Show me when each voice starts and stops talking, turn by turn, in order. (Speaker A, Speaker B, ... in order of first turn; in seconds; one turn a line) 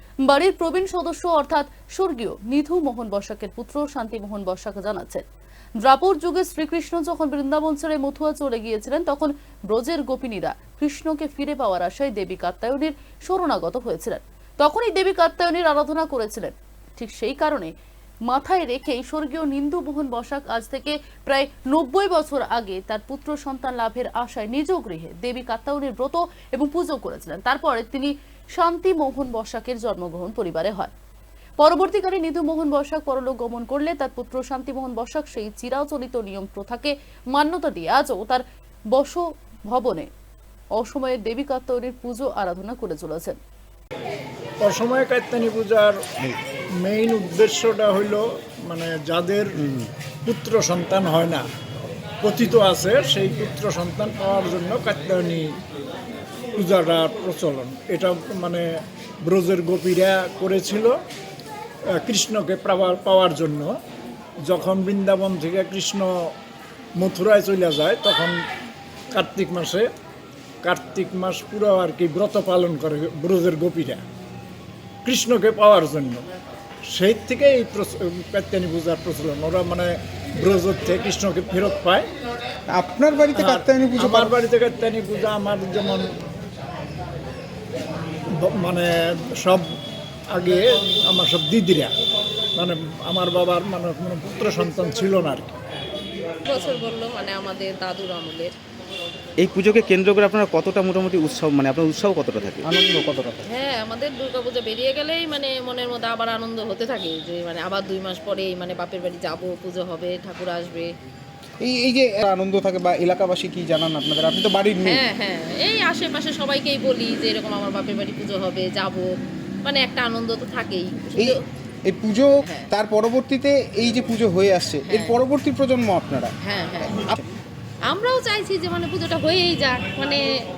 Speaker A: 0.3-5.2
Speaker A: 5.8-17.7
Speaker A: 18.3-30.9
Speaker A: 31.6-40.1
Speaker A: 40.8-43.4
Speaker B: 44.6-46.3
Speaker B: 46.8-49.7
Speaker B: 50.2-51.5
Speaker B: 52.2-55.6
Speaker B: 56.6-58.7
Speaker B: 59.2-61.0
Speaker B: 62.0-63.7
Speaker B: 64.4-66.3
Speaker B: 67.0-68.4
Speaker B: 69.1-69.9
Speaker B: 70.6-74.0
Speaker B: 75.0-76.2
Speaker B: 76.9-82.1
Speaker C: 82.7-84.3
Speaker B: 83.4-86.1
Speaker B: 88.4-89.7
Speaker B: 90.3-91.9
Speaker B: 92.6-95.6
Speaker D: 96.5-98.5
Speaker E: 99.4-102.7
Speaker C: 102.6-103.5
Speaker D: 103.5-110.9
Speaker C: 111.6-115.0
Speaker D: 114.8-119.0
Speaker D: 119.7-121.4
Speaker C: 121.2-126.3
Speaker D: 124.9-125.2
Speaker D: 126.4-127.2
Speaker D: 127.9-130.2